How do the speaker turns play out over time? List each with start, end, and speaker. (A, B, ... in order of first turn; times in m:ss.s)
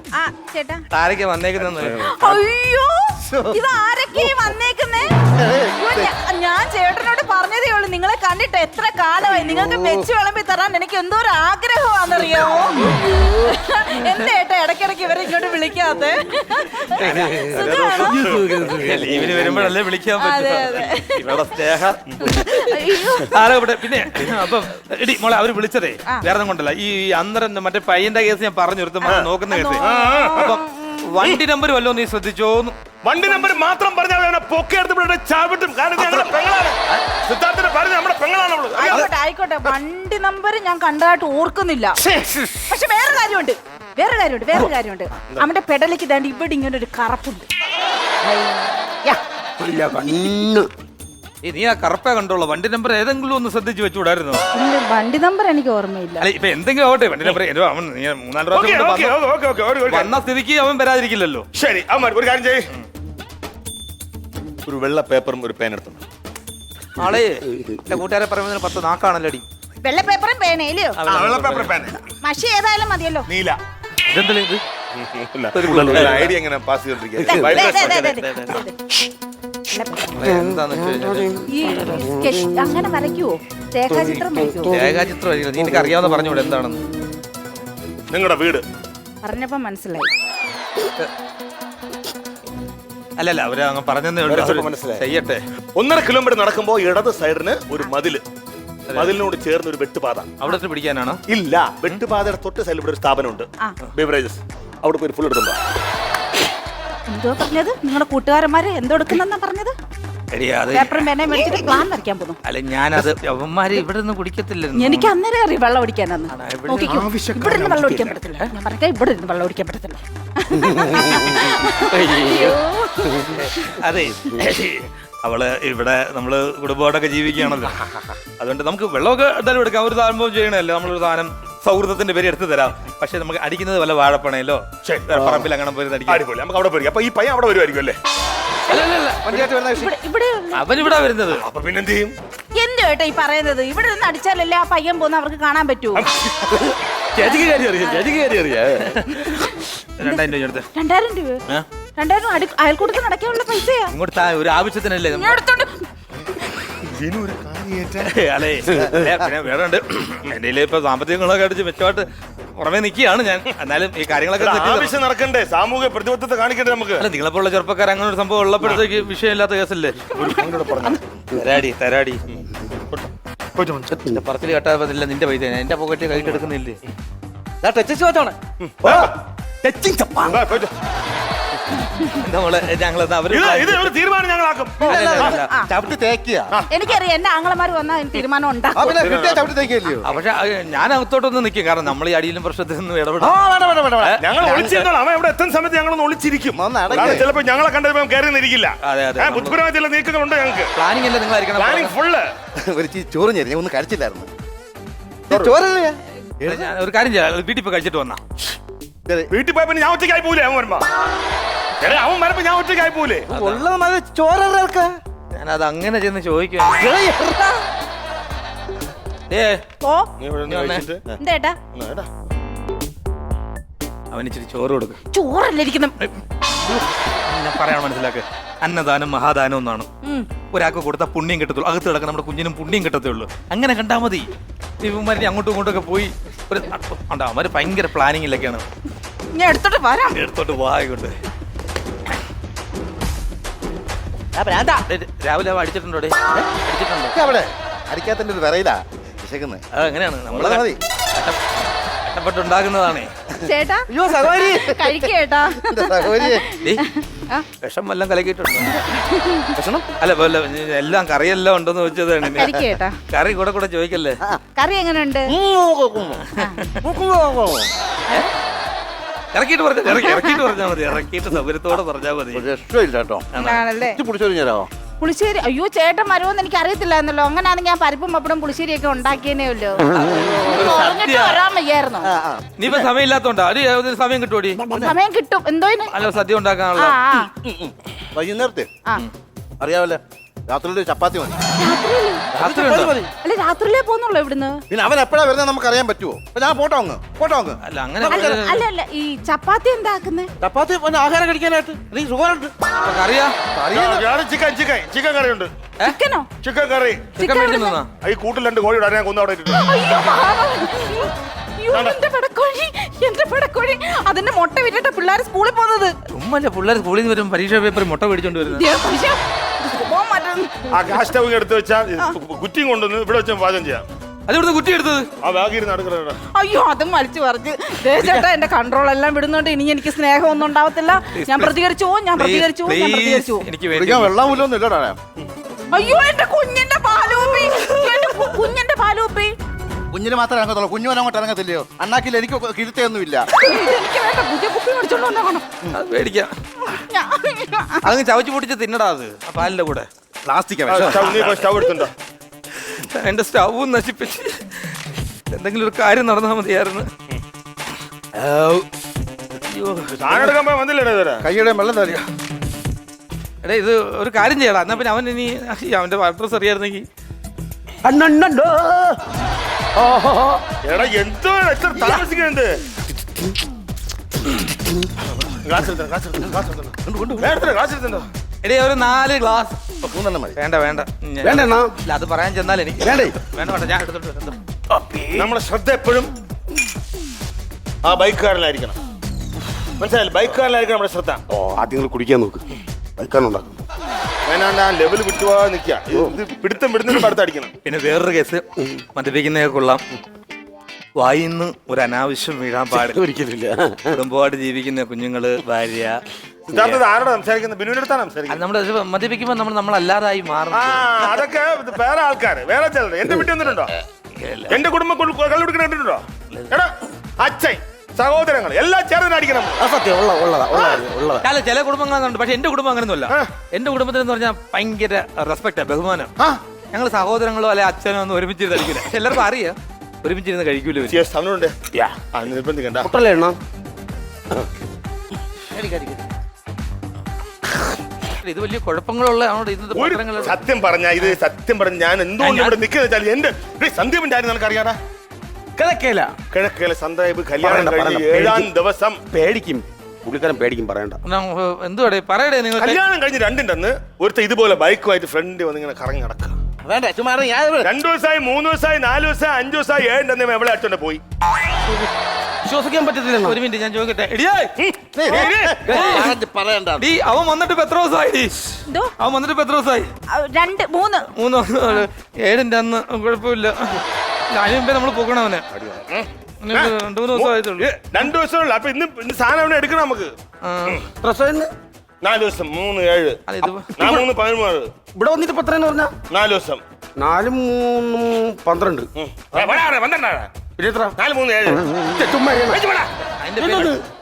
0:00.1-0:00.8 A
0:00.9-0:02.1 B
0:01.9-0:05.1 A
0:03.3-0:03.6 C
0:05.3-0:06.1 C
0:05.6-0:18.4 A
0:17.0-0:32.8 B
0:17.0-0:19.5 D
0:20.2-0:21.4 A
0:22.2-0:23.4 A
0:29.1-0:31.0 A
0:29.8-0:30.6 E
0:33.0-0:39.1 E
0:38.7-0:42.0 A
0:42.2-0:42.5 D
0:42.6-0:47.5 A
0:49.6-0:50.7 D
0:51.4-0:54.4 B
0:54.5-0:56.3 A
0:56.2-0:59.2 B
0:58.5-1:00.1 E
0:59.8-1:01.5 B
1:01.5-1:02.6 E
1:04.6-1:06.0 E
1:07.0-1:09.4 B
1:09.8-1:11.0 A
1:11.0-1:11.8 B
1:11.1-1:12.0 E
1:12.2-1:13.3 A
1:13.3-1:13.6 E
1:14.0-1:14.6 B
1:14.9-1:18.0 E
1:15.5-1:16.4 B
1:17.2-1:18.6 B
1:17.2-1:18.8 A
1:19.7-1:20.2 A
1:20.1-1:21.4 B
1:21.4-1:24.8 A
1:24.4-1:26.8 B
1:28.1-1:28.6 E
1:29.2-1:30.1 A
1:33.2-1:35.4 B
1:34.3-1:35.0 E
1:35.7-1:38.2 E
1:38.9-1:39.1 B
1:38.9-1:40.4 E
1:40.4-1:41.2 B
1:41.3-1:45.6 E
1:47.1-1:49.7 A
1:50.3-1:51.1 B
1:50.7-1:52.4 A
1:52.4-1:55.1 B
1:54.8-2:03.7 A
1:56.3-1:57.0 B
1:56.9-1:58.1 E
2:00.6-2:03.2 D
2:03.4-2:07.8 B
2:08.4-2:16.2 B
2:14.8-2:15.4 E
2:16.1-2:18.0 E
2:18.7-2:19.5 B
2:19.2-2:19.9 C
2:19.7-2:20.8 A
2:20.5-2:21.4 B
2:21.3-2:22.1 E
2:22.5-2:26.1 A
2:26.0-2:26.4 E
2:27.2-2:28.2 A
2:27.3-2:28.8 D
2:28.8-2:30.7 B
2:30.7-2:31.4 A
2:32.0-2:33.9 A
2:33.9-2:35.4 B
2:35.1-2:35.8 A
2:36.8-2:38.1 E
2:38.0-2:42.1 B
2:42.6-2:45.0 B
2:44.4-2:47.0 E
2:47.0-2:50.1 B
2:50.1-2:51.0 E
2:50.1-2:51.0 A
2:51.3-2:52.2 B
2:52.3-2:53.9 E
2:53.9-2:56.8 B
2:57.6-2:59.0 C
2:58.6-2:59.1 E
2:59.6-3:00.3 C
2:59.6-3:00.3 D
3:00.2-3:00.7 E
3:02.1-3:03.9 B
3:03.3-3:05.3 E
3:04.8-3:05.5 B
3:04.8-3:06.6 C
3:05.3-3:05.7 A
3:06.7-3:08.9 A
3:08.7-3:10.1 C
3:08.9-3:09.5 E
3:10.0-3:13.4 B
3:13.2-3:14.8 C
3:14.0-3:14.7 B
3:14.2-3:20.7 E
3:16.5-3:17.3 C
3:18.8-3:19.6 B
3:20.7-3:21.9 B
3:21.5-3:22.3 E
3:22.6-3:24.3 C
3:25.3-3:26.7 C
3:26.4-3:28.2 B
3:29.3-3:30.9 E
3:31.8-3:33.3 E
3:33.3-3:33.7 B
3:33.3-3:34.9 C
3:35.3-3:36.9 B
3:36.8-3:37.6 C
3:39.3-3:39.6 B
3:39.8-3:40.1 A
3:40.2-3:41.1 E
3:40.4-3:40.9 B
3:41.2-3:41.6 A
3:41.7-3:42.1 E
3:44.1-3:45.0 B
3:45.1-3:46.0 A
3:46.0-3:49.9 B
3:50.0-3:50.3 A
3:50.5-3:54.3 B
3:54.8-3:58.6 B
3:59.3-4:00.2 A
4:00.1-4:01.2 B
4:04.4-4:07.2 B
4:07.1-4:09.6 C
4:09.7-4:11.4 B
4:10.3-4:10.8 C
4:12.0-4:13.1 B
4:13.4-4:17.4 A
4:13.9-4:15.1 C
4:15.6-4:16.4 C
4:17.6-4:18.8 B
4:18.8-4:19.5 A
4:19.5-4:19.9 C
4:20.0-4:24.2 B
4:22.3-4:23.0 A
4:24.6-4:25.3 A
4:25.3-4:26.2 C
4:26.2-4:26.7 B
4:26.8-4:27.7 C
4:29.3-4:32.4 B
4:29.9-4:30.4 A
4:32.3-4:34.7 C
4:33.3-4:33.6 B
4:33.4-4:34.0 A
4:35.0-4:42.1 A
4:40.1-4:40.8 C
4:40.3-4:41.4 B
4:42.0-4:42.9 C
4:42.6-4:44.6 B
4:44.6-4:44.9 C
4:44.7-4:45.9 A
4:45.9-4:47.0 B
4:46.8-4:47.3 A
4:47.4-4:48.7 C
4:49.6-4:51.4 C
4:51.5-4:52.3 A
4:52.3-4:53.1 C
4:52.3-4:53.0 B
4:53.2-4:54.6 A
4:54.7-4:58.4 C
4:57.6-4:58.6 B
4:58.1-5:00.3 A
5:00.4-5:02.6 C
5:02.8-5:03.4 B
5:03.5-5:04.1 C
5:03.7-5:05.5 E
5:05.8-5:06.3 A
5:06.4-5:07.1 E
5:07.2-5:07.8 A
5:07.2-5:07.9 B
5:08.0-5:09.6 E
5:09.5-5:15.9 A
5:11.7-5:12.0 E
5:16.1-5:18.6 B
5:18.5-5:20.6 A
5:20.7-5:23.8 E
5:24.3-5:25.1 B
5:25.2-5:26.2 E
5:26.3-5:33.4 A
5:28.0-5:28.2 B
5:31.1-5:31.5 B
5:32.1-5:34.2 B
5:33.7-5:35.0 C
5:35.7-5:39.3 A
5:39.9-5:43.3 C
5:43.3-5:45.4 A
5:45.7-5:46.3 B
5:46.6-5:47.9 A
5:47.8-5:49.9 B
5:50.3-5:51.3 C
5:50.7-5:51.9 E
5:50.8-5:51.2 B
5:52.6-5:54.6 B
5:55.3-5:56.9 B
5:59.5-6:00.4 B
5:59.9-6:01.2 E
6:01.2-6:02.0 C
6:03.4-6:06.8 B
6:07.8-6:09.0 D
6:09.7-6:10.4 D
6:10.6-6:12.6 E
6:15.3-6:18.1 E
6:16.8-6:17.4 C
6:18.4-6:19.6 B
6:19.8-6:20.4 C
6:20.4-6:24.4 B
6:21.2-6:21.7 D
6:22.8-6:23.2 D
6:25.1-6:26.1 E
6:27.8-6:28.8 E
6:29.8-6:31.2 E
6:31.3-6:33.6 D
6:34.2-6:37.5 E
6:37.6-6:38.4 B
6:38.9-6:39.8 B
6:41.0-6:43.0 B
6:42.7-6:44.0 D
6:43.9-6:46.0 B
6:46.5-6:48.4 E
6:46.5-6:46.8 B
6:48.3-6:50.8 B
6:50.5-6:53.7 E
6:54.2-6:54.6 B
6:54.5-6:59.6 E
6:59.6-7:01.2 D
6:59.9-7:01.2 C
7:00.5-7:00.8 E
7:01.2-7:06.1 B
7:06.7-7:11.0 B
7:10.9-7:12.9 E
7:12.8-7:13.4 D
7:15.6-7:15.9 C
7:18.2-7:20.4 B
7:19.7-7:24.8 E
7:22.2-7:22.6 B
7:25.6-7:26.2 D
7:26.3-7:29.1 E
7:27.4-7:28.5 D
7:29.1-7:31.0 D
7:31.0-7:32.8 B
7:32.6-7:36.4 E
7:36.6-7:37.7 C
7:37.6-7:41.0 E
7:42.4-7:43.4 D
7:43.2-7:44.5 B
7:44.6-7:45.6 E
7:44.9-7:46.9 C
7:45.7-7:46.0 D
7:45.7-7:46.1 B
7:46.8-7:48.4 B
7:48.7-7:48.9 A
7:49.0-7:49.9 B
7:50.1-7:51.1 A
7:51.1-7:55.4 B
7:55.6-8:00.1 E
7:56.4-7:57.7 B
8:00.4-8:00.8 B
8:01.0-8:01.5 D
8:02.0-8:03.2 E
8:03.3-8:03.7 B
8:03.4-8:04.1 D
8:03.8-8:04.7 E
8:04.9-8:05.9 D
8:06.1-8:06.6 E
8:07.0-8:09.6 D
8:09.0-8:10.3 E
8:10.6-8:10.9 D
8:11.0-8:11.8 E
8:11.8-8:12.6 D
8:12.5-8:12.9 E
8:13.1-8:13.8 B
8:13.4-8:13.8 D